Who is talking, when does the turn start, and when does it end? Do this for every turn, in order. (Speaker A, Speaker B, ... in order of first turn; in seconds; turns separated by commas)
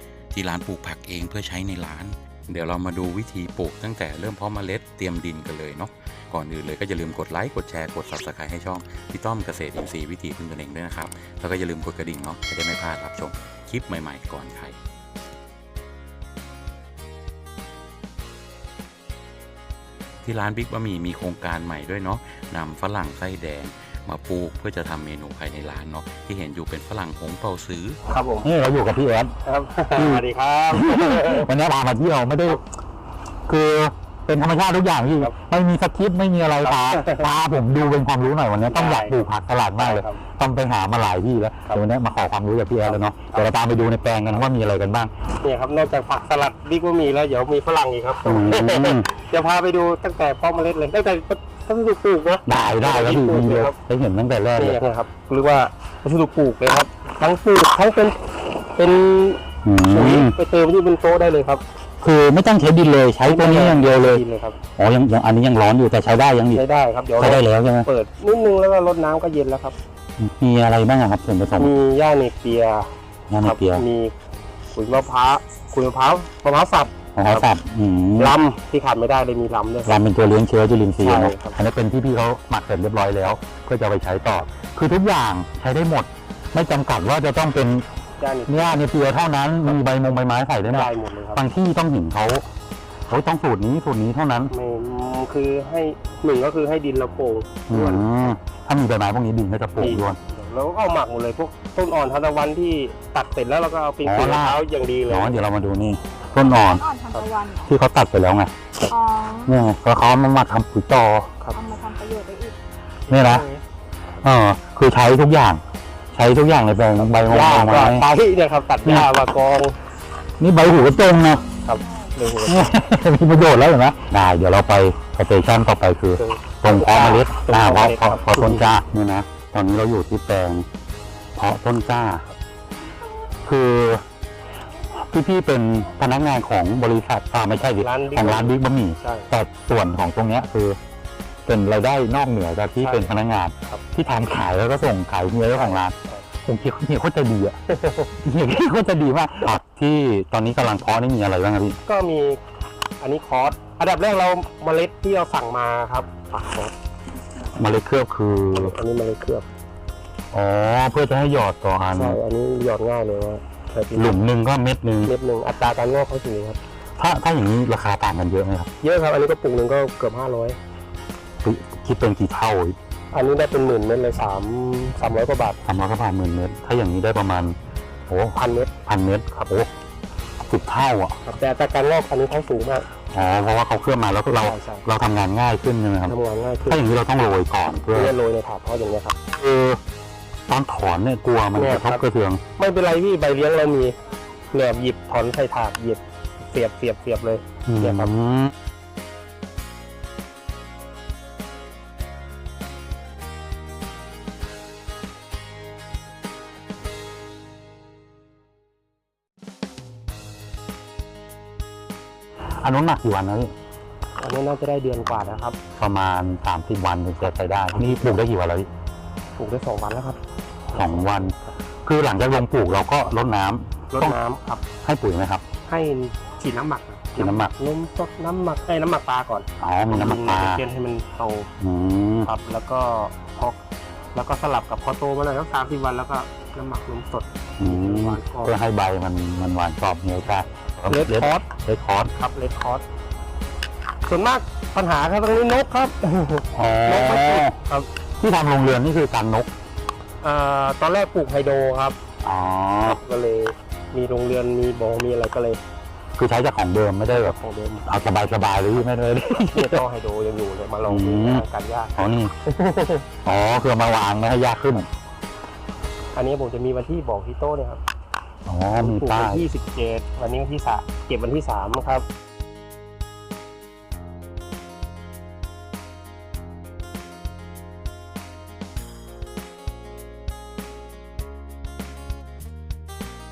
Speaker A: 0.3-14.8, Speaker A: 20.2-28.0, Speaker B: 28.1-28.5, Speaker C: 28.4-29.3, Speaker B: 29.4-31.5, Speaker C: 29.9-32.6, Speaker C: 33.5-45.1, Speaker B: 36.6-37.2, Speaker B: 38.7-39.2, Speaker B: 39.8-40.2, Speaker B: 42.9-43.5, Speaker B: 45.4-53.7, Speaker C: 48.2-49.1, Speaker C: 52.4-54.8, Speaker B: 54.6-58.2, Speaker B: 58.7-61.6, Speaker C: 59.6-60.3, Speaker C: 62.0-64.2, Speaker B: 63.2-64.6, Speaker C: 64.8-66.6, Speaker B: 66.5-69.8, Speaker C: 67.2-67.9, Speaker C: 70.2-71.7, Speaker B: 71.6-72.9, Speaker C: 73.3-73.8, Speaker B: 73.4-74.1, Speaker B: 74.7-77.5, Speaker C: 77.2-78.5, Speaker B: 78.2-80.0, Speaker C: 79.8-87.8, Speaker B: 81.0-81.6, Speaker B: 88.2-88.8, Speaker C: 88.5-92.4, Speaker B: 90.7-91.4, Speaker C: 93.1-94.5, Speaker B: 94.5-98.3, Speaker C: 97.7-100.2, Speaker B: 99.8-105.5, Speaker C: 104.0-106.8, Speaker D: 106.4-107.7, Speaker C: 107.7-108.5, Speaker D: 108.9-109.6, Speaker C: 109.5-111.3, Speaker D: 111.5-112.5, Speaker B: 113.1-113.6, Speaker C: 113.1-113.4, Speaker C: 114.2-115.6, Speaker C: 116.1-118.1, Speaker B: 116.9-119.7, Speaker C: 118.8-119.1, Speaker C: 120.4-121.4, Speaker B: 121.6-122.7, Speaker C: 122.4-130.7, Speaker B: 126.2-128.7, Speaker C: 131.3-132.2, Speaker C: 133.4-134.0, Speaker C: 135.0-140.8, Speaker B: 137.8-139.3, Speaker C: 141.4-145.9, Speaker B: 142.8-143.1, Speaker B: 145.5-146.3, Speaker C: 146.4-147.5, Speaker B: 147.7-148.1, Speaker C: 148.2-151.8, Speaker B: 151.8-152.4, Speaker B: 153.0-156.7, Speaker C: 157.6-158.8, Speaker B: 158.5-159.5, Speaker C: 160.3-162.2, Speaker B: 161.9-164.2, Speaker C: 163.9-165.1, Speaker B: 165.0-166.6, Speaker C: 167.0-168.7, Speaker B: 168.8-170.6, Speaker C: 171.4-172.8, Speaker B: 173.1-175.6, Speaker C: 175.6-177.6, Speaker C: 178.1-179.7, Speaker B: 178.3-178.7, Speaker C: 180.4-181.2, Speaker B: 181.2-182.8, Speaker C: 183.1-186.1, Speaker B: 184.3-184.9, Speaker B: 186.1-186.8, Speaker C: 186.7-188.1, Speaker B: 187.9-189.2, Speaker C: 189.3-189.8, Speaker C: 190.5-192.4, Speaker B: 191.5-192.0, Speaker B: 192.6-193.9, Speaker B: 194.5-198.1, Speaker C: 197.7-198.5, Speaker C: 212.6-213.5, Speaker B: 214.2-215.6, Speaker C: 215.8-218.7, Speaker B: 217.7-218.2, Speaker B: 219.4-220.2, Speaker B: 220.7-221.6, Speaker C: 220.7-224.2, Speaker B: 223.9-224.6, Speaker C: 224.8-225.4, Speaker B: 225.7-231.5, Speaker C: 227.2-227.5, Speaker C: 229.6-230.6, Speaker C: 231.6-232.3, Speaker B: 232.2-233.6, Speaker B: 234.1-238.5, Speaker C: 237.6-242.1, Speaker B: 240.8-241.5, Speaker B: 242.1-242.8, Speaker B: 244.1-247.9, Speaker C: 246.5-247.6, Speaker C: 248.2-249.5, Speaker B: 250.2-252.0, Speaker C: 252.2-253.0, Speaker B: 252.8-255.6, Speaker C: 256.2-257.3, Speaker B: 257.0-257.9, Speaker C: 257.9-259.8, Speaker B: 259.5-263.1, Speaker C: 260.9-261.4, Speaker C: 262.0-262.3, Speaker C: 263.2-264.9, Speaker B: 266.1-267.8, Speaker C: 268.5-269.5, Speaker B: 268.7-272.0